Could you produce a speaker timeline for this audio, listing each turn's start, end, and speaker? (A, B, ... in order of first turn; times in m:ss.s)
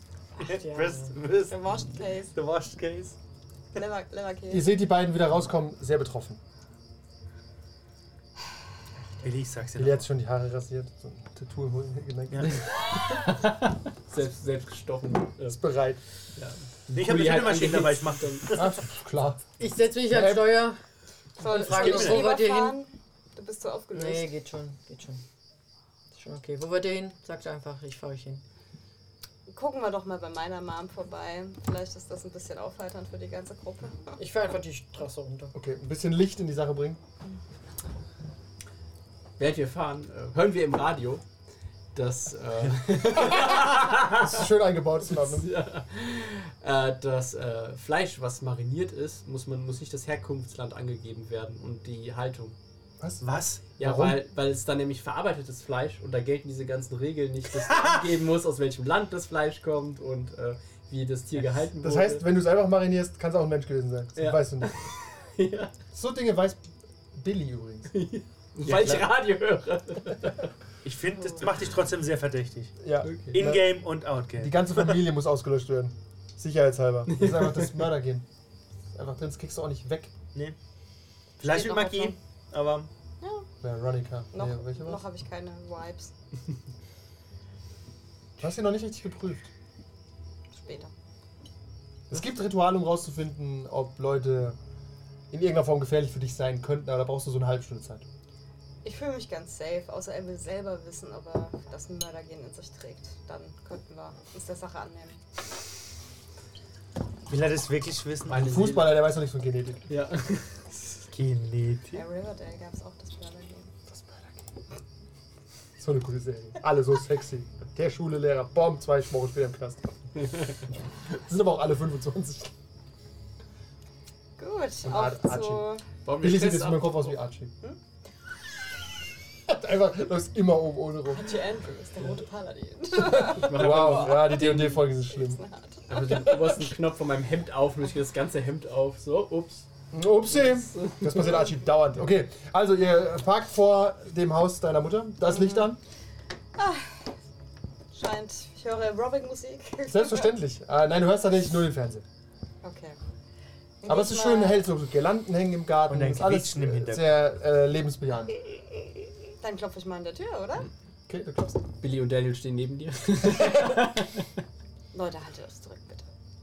0:00.4-0:03.2 A
0:00.4-0:01.1 B
0:01.5-0:02.4 C
0:03.7-0:04.7 C
0:04.5-0:06.4 D
0:09.2-0:10.0 A
0:09.8-0:12.5 D
0:12.5-0:15.6 E
0:15.5-0:16.0 D
0:16.4-0:18.6 E
0:16.9-0:18.7 A
0:18.5-0:19.5 D
0:19.6-0:20.8 B
0:20.1-0:20.6 D
0:21.4-0:24.3 C
0:21.4-0:22.8 B
0:21.7-0:22.2 D
0:23.9-0:25.2 B
0:26.1-0:28.4 B
0:29.5-0:34.1 C
0:34.2-0:35.5 B
0:35.5-0:37.0 D
0:39.4-0:41.2 E
0:41.9-0:44.5 E
0:43.4-0:45.5 D
0:45.1-0:52.6 E
0:53.0-0:54.2 D
0:53.2-0:53.7 A
0:53.8-1:02.2 E
1:01.8-1:04.7 D
1:04.2-1:05.7 E
1:05.9-1:06.6 D
1:07.2-1:07.9 D
1:07.9-1:10.5 E
1:08.6-1:09.2 D
1:10.8-1:12.8 A
1:12.8-1:13.7 D
1:13.0-1:13.3 E
1:13.3-1:15.0 A
1:14.4-1:18.2 D
1:17.2-1:17.6 E
1:18.9-1:20.1 D
1:21.4-1:22.2 C
1:21.4-1:22.9 A
1:23.2-1:23.5 C
1:23.6-1:25.0 D
1:24.3-1:26.1 C
1:28.4-1:29.5 D
1:30.6-1:30.9 C
1:32.1-1:34.6 D
1:35.3-1:38.0 D
1:38.8-1:45.2 C
1:47.3-1:48.5 A
1:48.3-1:49.1 E
1:48.4-1:49.9 D
1:49.9-1:50.8 E
1:51.1-1:52.0 A
1:51.9-1:53.7 C
1:55.8-1:59.9 D
2:00.7-2:02.5 D
2:04.4-2:05.8 C
2:04.8-2:05.6 D
2:06.0-2:07.2 E
2:06.2-2:07.5 D
2:09.5-2:11.4 D
2:11.1-2:15.8 C
2:13.1-2:14.8 E
2:13.1-2:15.4 D
2:15.9-2:19.6 E
2:19.9-2:25.8 D
2:20.7-2:21.3 E
2:25.3-2:25.7 C
2:26.6-2:27.1 C
2:27.9-2:30.3 C
2:29.9-2:32.0 D
2:32.6-2:33.0 C
2:33.8-2:34.6 C
2:33.9-2:38.4 D
2:35.9-2:37.1 A
2:39.4-2:40.7 C
2:41.1-2:41.6 D
2:41.8-2:44.3 E
2:44.9-2:46.1 C